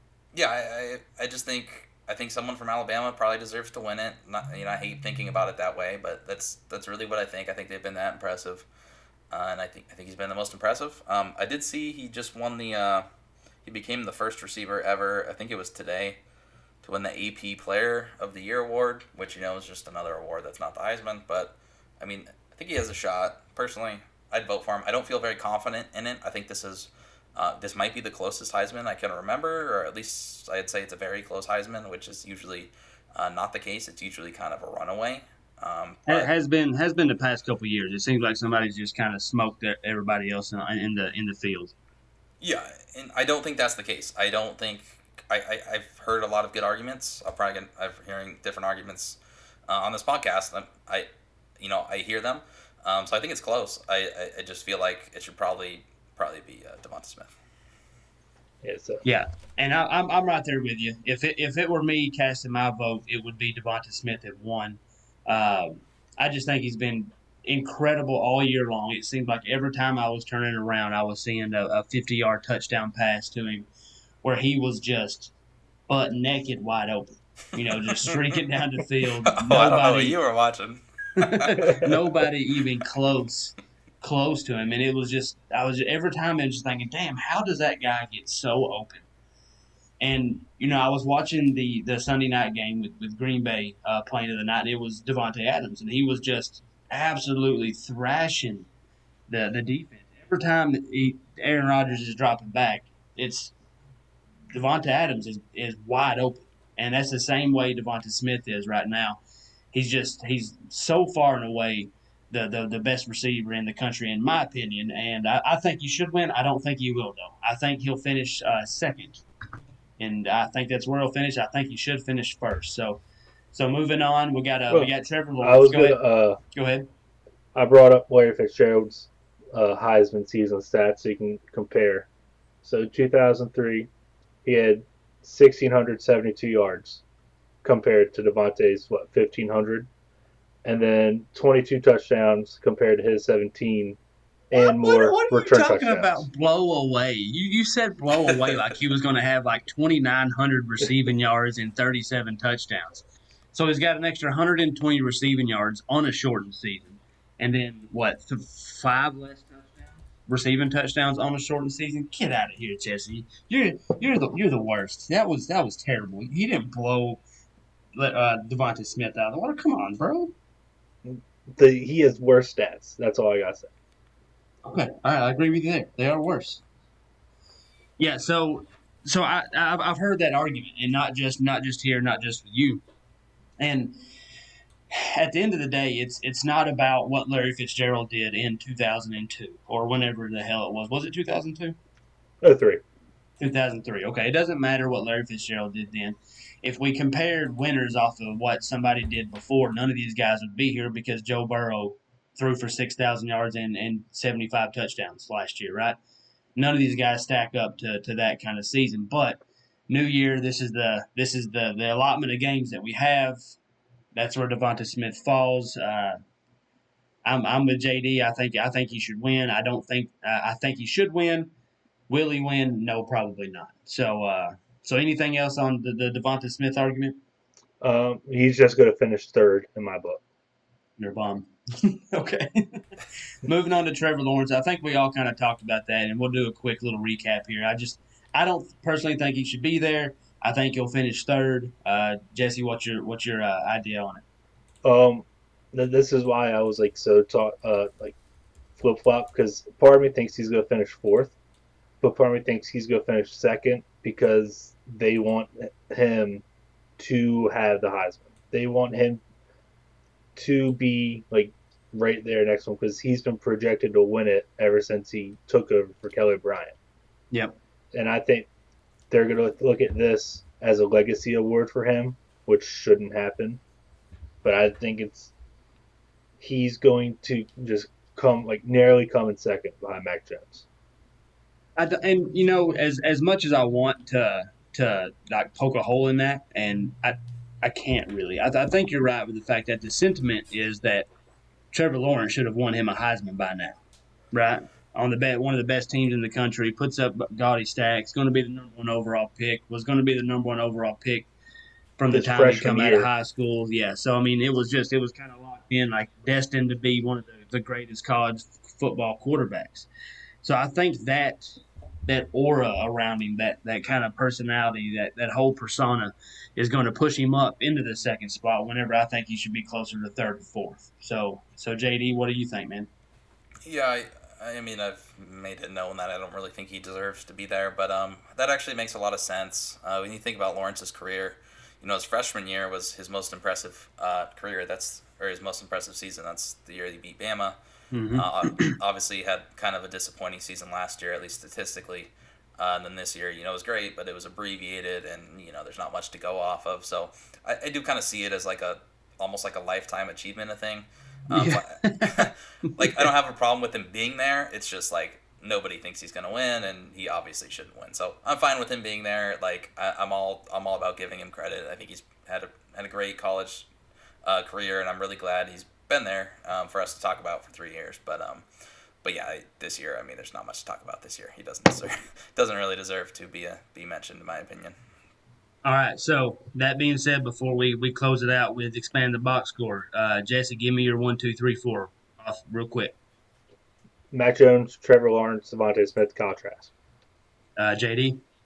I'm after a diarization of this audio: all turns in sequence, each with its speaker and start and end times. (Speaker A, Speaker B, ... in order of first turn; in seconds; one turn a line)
Speaker A: 0.3-8.7
Speaker A: 9.3-13.1
Speaker A: 13.6-16.2
Speaker A: 16.8-36.3
Speaker B: 36.0-41.7
Speaker A: 42.4-57.3
Speaker C: 58.6-59.0
Speaker B: 59.0-73.7
Speaker B: 74.2-75.3
Speaker B: 75.9-80.2
Speaker A: 79.3-82.2
Speaker B: 81.2-89.1
Speaker B: 90.0-98.7
Speaker B: 99.3-103.5
Speaker B: 104.5-109.2
Speaker B: 109.7-119.2
Speaker B: 120.0-126.0
Speaker C: 124.7-126.4
Speaker B: 126.5-126.9
Speaker C: 127.5-132.1
Speaker C: 132.6-133.9
Speaker C: 134.4-137.0
Speaker C: 137.6-139.9
Speaker C: 140.6-144.0
Speaker C: 144.5-146.2
Speaker B: 144.5-167.2
Speaker B: 167.9-170.3
Speaker C: 171.0-173.7
Speaker B: 174.6-176.6
Speaker B: 178.0-182.8
Speaker B: 183.6-183.9
Speaker B: 184.9-191.8
Speaker C: 192.4-192.8
Speaker B: 193.4-206.0
Speaker B: 206.6-213.4
Speaker B: 214.1-216.2
Speaker B: 217.2-221.5
Speaker B: 222.1-227.2
Speaker C: 227.8-230.2
Speaker B: 231.0-232.9
Speaker B: 233.4-244.2
Speaker C: 244.8-248.2
Speaker C: 248.8-251.3
Speaker C: 252.0-256.4
Speaker C: 257.0-259.2
Speaker C: 260.4-266.7
Speaker C: 267.9-268.5
Speaker C: 269.1-273.6
Speaker C: 274.4-275.3
Speaker C: 276.4-280.6
Speaker B: 281.8-291.1
Speaker B: 291.7-293.8
Speaker B: 294.3-301.3
Speaker B: 302.0-309.9
Speaker C: 302.1-303.1
Speaker B: 310.4-322.9
Speaker A: 323.6-337.6
Speaker B: 337.9-338.8
Speaker A: 338.1-363.7
Speaker B: 351.3-353.1
Speaker A: 364.2-368.4
Speaker A: 369.0-374.7
Speaker B: 375.6-382.9
Speaker C: 384.1-386.7
Speaker B: 387.6-388.2